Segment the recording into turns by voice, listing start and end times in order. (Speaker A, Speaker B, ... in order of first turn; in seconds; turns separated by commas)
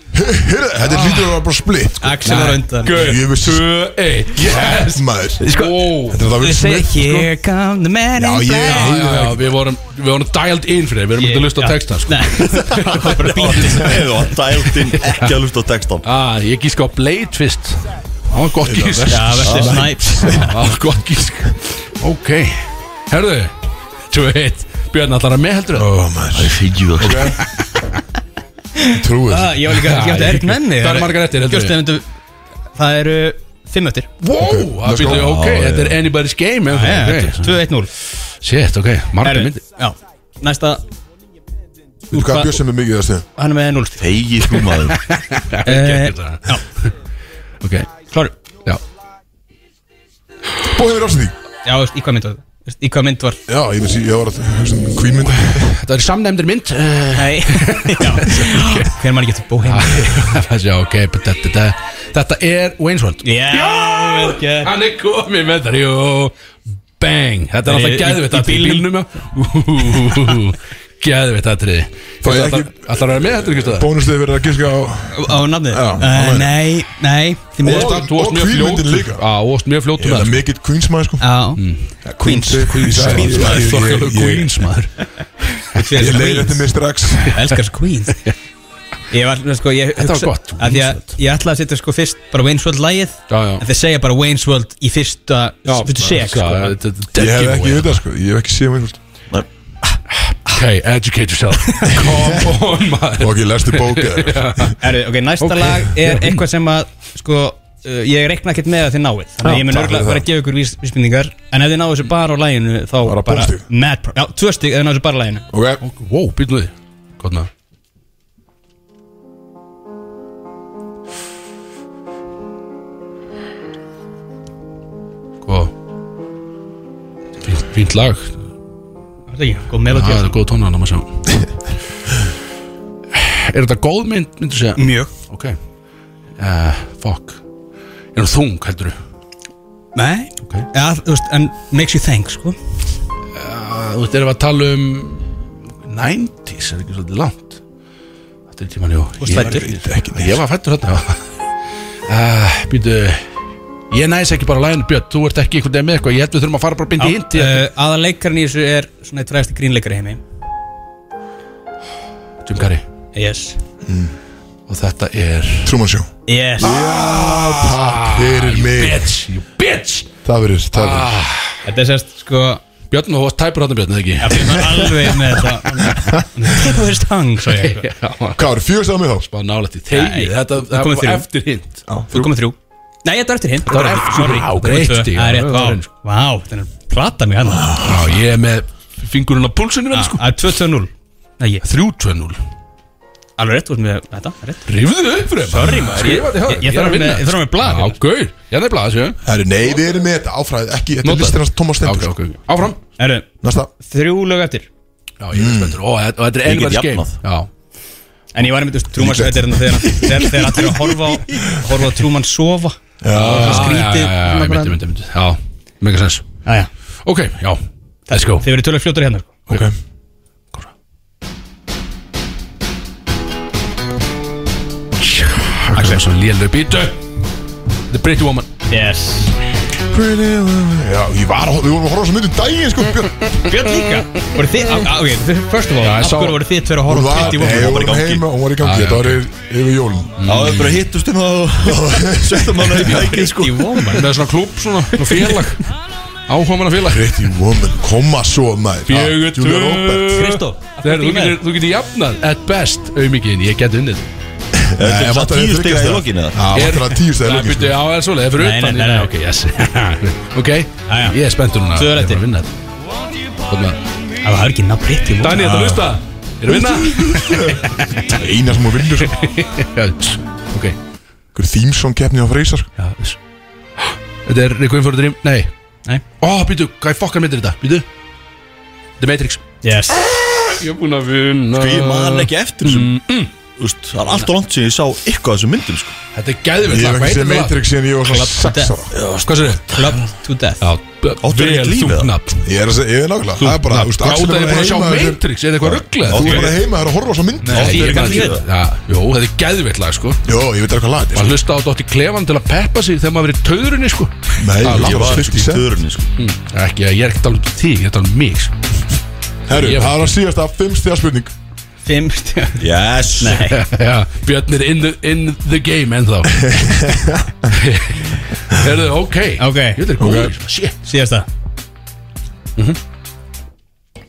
Speaker A: 0.1-3.7, Speaker B: 0.8-1.4, Speaker C: 2.0-3.2, Speaker B: 2.2-6.2, Speaker A: 4.4-7.2, Speaker C: 5.5-5.7, Speaker C: 6.2-9.0, Speaker A: 8.2-9.4, Speaker B: 8.6-15.3, Speaker C: 11.2-14.0, Speaker D: 12.4-16.1, Speaker B: 16.0-23.5, Speaker A: 18.6-20.6, Speaker C: 19.1-20.5, Speaker D: 19.5-19.8, Speaker B: 24.1-25.9, Speaker A: 25.7-27.4, Speaker D: 26.3-27.4, Speaker B: 27.1-27.4, Speaker C: 28.8-32.1, Speaker A: 28.9-29.6, Speaker B: 29.7-31.8, Speaker C: 32.8-34.1, Speaker B: 34.2-37.6, Speaker A: 34.4-35.4, Speaker D: 35.0-36.0, Speaker C: 36.7-37.9, Speaker B: 38.4-39.6, Speaker C: 39.2-40.8, Speaker A: 42.1-43.3, Speaker C: 42.1-42.6, Speaker C: 43.4-44.2, Speaker D: 44.0-45.0, Speaker B: 45.0-46.9, Speaker C: 45.6-46.6, Speaker B: 47.6-47.9, Speaker A: 50.6-51.4, Speaker C: 51.6-53.4, Speaker A: 53.5-55.8, Speaker B: 55.4-58.9, Speaker C: 57.2-60.3, Speaker B: 59.6-66.3, Speaker C: 63.2-64.7, Speaker B: 67.0-73.9, Speaker C: 67.7-68.9, Speaker C: 70.0-70.4, Speaker A: 72.2-76.5, Speaker C: 75.1-77.9, Speaker B: 77.6-80.4, Speaker A: 77.6-79.2, Speaker A: 80.0-81.3, Speaker C: 81.2-81.6, Speaker B: 81.6-81.8, Speaker A: 82.0-84.7, Speaker C: 82.2-83.8, Speaker B: 82.7-85.0, Speaker C: 85.6-86.7, Speaker A: 86.0-87.4, Speaker C: 87.2-88.2, Speaker C: 89.1-96.8, Speaker B: 90.0-91.2, Speaker B: 93.3-93.6, Speaker B: 95.7-98.0, Speaker A: 97.2-99.0, Speaker B: 100.2-104.8, Speaker A: 102.0-102.4, Speaker A: 103.2-104.8, Speaker C: 104.8-115.5, Speaker B: 105.4-106.4, Speaker A: 109.4-110.2, Speaker A: 113.0-113.7, Speaker A: 115.5-115.8, Speaker B: 115.8-117.5, Speaker B: 125.4-125.7, Speaker B: 127.4-128.3, Speaker C: 129.3-130.4, Speaker B: 129.9-131.2, Speaker B: 133.1-135.6, Speaker C: 134.8-135.1, Speaker B: 136.4-137.4, Speaker B: 138.2-139.0, Speaker C: 140.0-142.6, Speaker B: 143.3-147.6, Speaker B: 148.5-151.3, Speaker C: 149.2-149.7, Speaker A: 149.3-150.4, Speaker B: 152.1-153.2, Speaker B: 153.9-157.7, Speaker C: 157.0-160.2, Speaker B: 162.4-162.8, Speaker C: 163.2-163.6, Speaker A: 163.8-164.1, Speaker B: 164.7-165.8, Speaker A: 165.6-169.1, Speaker C: 166.3-166.8, Speaker B: 166.6-170.1, Speaker A: 170.2-171.2, Speaker B: 170.7-171.6, Speaker C: 171.7-172.6, Speaker B: 172.9-175.2, Speaker C: 174.2-177.8, Speaker B: 177.5-178.5, Speaker A: 178.4-179.3, Speaker B: 179.3-181.8, Speaker C: 179.9-181.3, Speaker A: 181.9-182.3, Speaker C: 182.1-187.8, Speaker B: 183.7-185.9, Speaker A: 187.5-188.2, Speaker B: 187.8-190.3, Speaker C: 189.9-191.6, Speaker B: 191.6-192.4, Speaker C: 193.4-194.7, Speaker B: 194.7-199.2, Speaker C: 195.5-198.0, Speaker A: 199.2-202.2, Speaker B: 201.0-202.8, Speaker C: 203.0-203.3, Speaker A: 203.4-203.7, Speaker C: 203.8-204.7, Speaker B: 205.2-207.5, Speaker A: 205.3-205.8, Speaker D: 206.4-207.2, Speaker C: 208.3-214.8, Speaker A: 209.0-210.7, Speaker A: 213.0-213.9, Speaker B: 213.1-216.3, Speaker B: 217.1-217.6, Speaker C: 218.1-219.3, Speaker B: 218.1-218.4, Speaker B: 225.0-227.0, Speaker C: 225.7-226.0, Speaker B: 227.9-228.5, Speaker C: 228.7-229.3, Speaker A: 229.9-233.2, Speaker C: 233.4-237.9, Speaker B: 235.8-236.4, Speaker A: 236.8-240.2, Speaker D: 237.4-238.2, Speaker B: 238.6-239.2, Speaker B: 240.2-240.8, Speaker D: 240.2-243.9, Speaker A: 241.6-243.1, Speaker C: 242.9-244.1, Speaker B: 243.9-245.8, Speaker C: 245.0-245.4, Speaker B: 246.3-247.2, Speaker A: 246.8-250.2, Speaker B: 248.9-254.0, Speaker C: 250.1-251.4, Speaker A: 254.6-257.8, Speaker D: 254.8-256.4, Speaker B: 256.5-262.5, Speaker C: 258.4-259.1, Speaker C: 260.9-261.2, Speaker C: 261.7-262.2, Speaker B: 263.5-263.8, Speaker C: 264.2-265.4, Speaker B: 265.2-268.2, Speaker A: 265.4-269.2, Speaker B: 269.0-270.8, Speaker A: 271.3-272.7, Speaker B: 272.8-273.2, Speaker B: 273.8-275.5, Speaker B: 276.2-277.9, Speaker B: 279.0-279.4, Speaker C: 279.6-280.0, Speaker B: 280.0-283.3, Speaker D: 281.5-283.0, Speaker D: 283.6-286.0, Speaker B: 286.1-287.6, Speaker A: 286.6-288.9, Speaker C: 288.1-288.7, Speaker D: 289.0-289.3, Speaker B: 289.2-290.0, Speaker C: 289.7-290.6, Speaker B: 290.6-292.4, Speaker D: 291.2-292.1, Speaker A: 292.4-298.0, Speaker B: 293.4-296.6, Speaker D: 296.1-296.6, Speaker B: 297.4-300.2, Speaker C: 297.5-298.4, Speaker D: 297.5-298.4, Speaker A: 300.2-301.4, Speaker B: 301.1-305.4, Speaker A: 304.4-305.6, Speaker D: 304.6-306.1, Speaker B: 306.2-308.5, Speaker A: 309.5-311.3, Speaker B: 309.5-310.1, Speaker C: 311.8-312.6, Speaker D: 312.6-313.4, Speaker C: 313.2-313.6, Speaker B: 313.2-316.6, Speaker A: 316.4-317.4, Speaker B: 317.5-320.7, Speaker C: 319.4-319.9, Speaker A: 320.0-320.3, Speaker C: 320.9-321.3